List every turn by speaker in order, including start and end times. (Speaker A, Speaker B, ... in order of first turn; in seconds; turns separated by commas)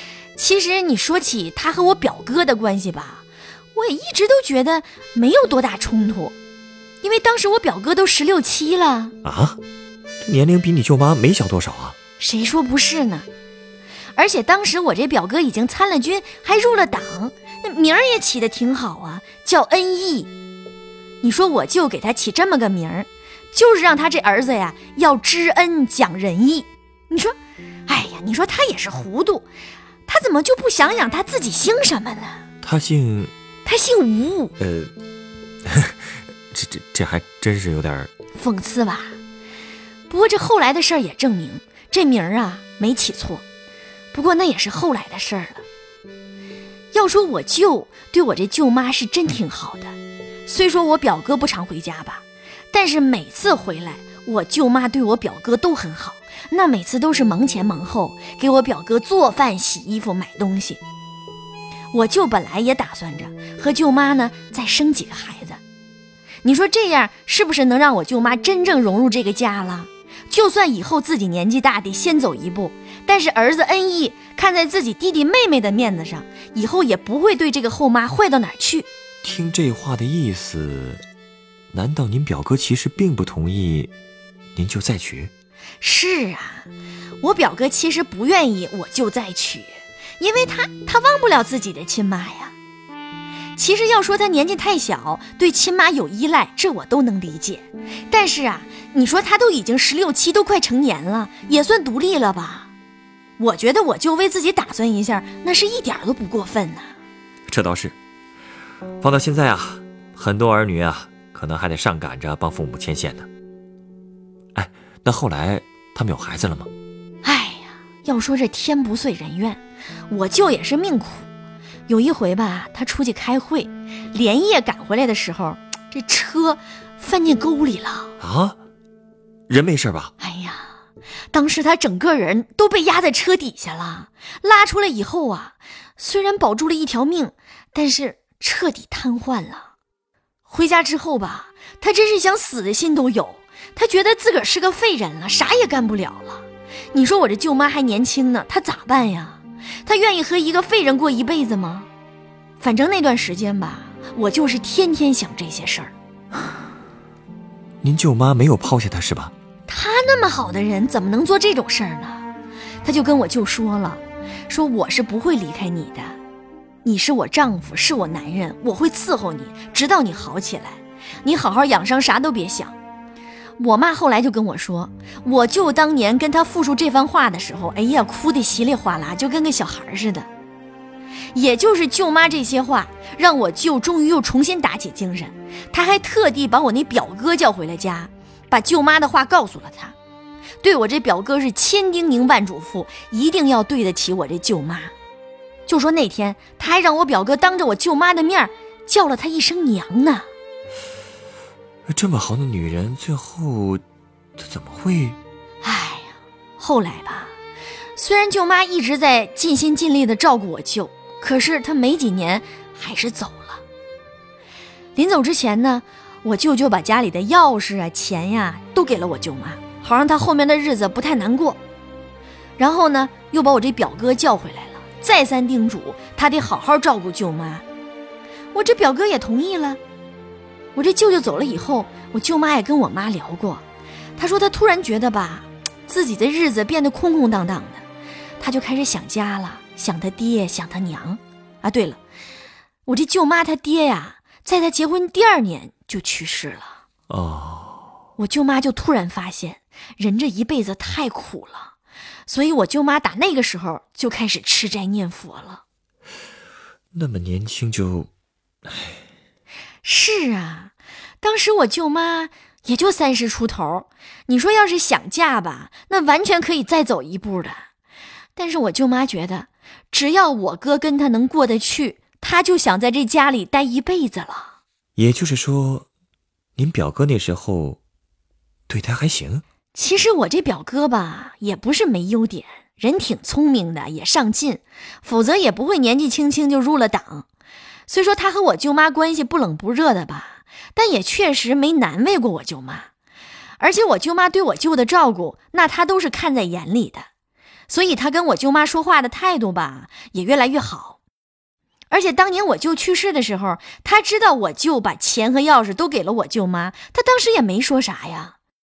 Speaker A: 0.3-6.3, Speaker A: 7.0-9.2, Speaker B: 9.2-9.6, Speaker B: 10.2-11.9, Speaker A: 12.2-13.3, Speaker A: 14.2-20.3, Speaker A: 21.2-27.4, Speaker A: 27.9-29.4, Speaker A: 30.1-32.4, Speaker B: 32.6-33.3, Speaker A: 33.6-34.5, Speaker B: 34.6-34.9, Speaker B: 35.6-38.1, Speaker A: 38.3-39.2, Speaker A: 40.1-43.4, Speaker A: 44.1-45.6, Speaker A: 46.9-60.8, Speaker A: 61.9-65.6, Speaker A: 66.4-78.9, Speaker B: 79.2-81.0, Speaker B: 81.7-83.9, Speaker B: 84.5-85.3, Speaker A: 85.8-86.7, Speaker A: 87.2-92.5, Speaker A: 93.5-102.7, Speaker A: 103.4-106.9, Speaker B: 107.5-107.9, Speaker B: 109.0-113.3, Speaker B: 114.5-116.7, Speaker A: 117.2-121.3, Speaker A: 121.9-128.1, Speaker B: 128.2-128.6, Speaker B: 129.5-130.1, Speaker A: 130.2-130.8, Speaker A: 131.3-139.7, Speaker A: 140.5-151.9, Speaker A: 152.6-155.9, Speaker B: 157.8-159.3, Speaker A: 159.7-162.3, Speaker A: 162.8-166.2, Speaker A: 166.8-172.8, Speaker A: 173.6-180.3, Speaker A: 181.3-189.9, Speaker A: 190.6-194.9, Speaker A: 195.7-200.3, Speaker B: 201.9-203.8, Speaker B: 204.4-205.2, Speaker A: 205.6-207.3, Speaker A: 207.9-213.6, Speaker A: 214.9-221.6, Speaker A: 222.6-227.6, Speaker A: 228.5-229.8, Speaker A: 230.7-233.6, Speaker A: 234.2-237.8, Speaker A: 238.4-242.0, Speaker A: 242.8-246.8, Speaker B: 247.1-247.9, Speaker A: 248.2-251.7, Speaker A: 252.3-255.6, Speaker B: 256.9-258.1, Speaker B: 258.6-259.0, Speaker A: 259.8-267.6, Speaker A: 268.4-274.5, Speaker B: 274.9-275.9, Speaker B: 276.6-277.8, Speaker B: 278.7-279.4, Speaker A: 279.7-287.3, Speaker A: 287.9-292.9, Speaker A: 293.6-297.1, Speaker A: 297.7-301.0, Speaker A: 301.9-308.4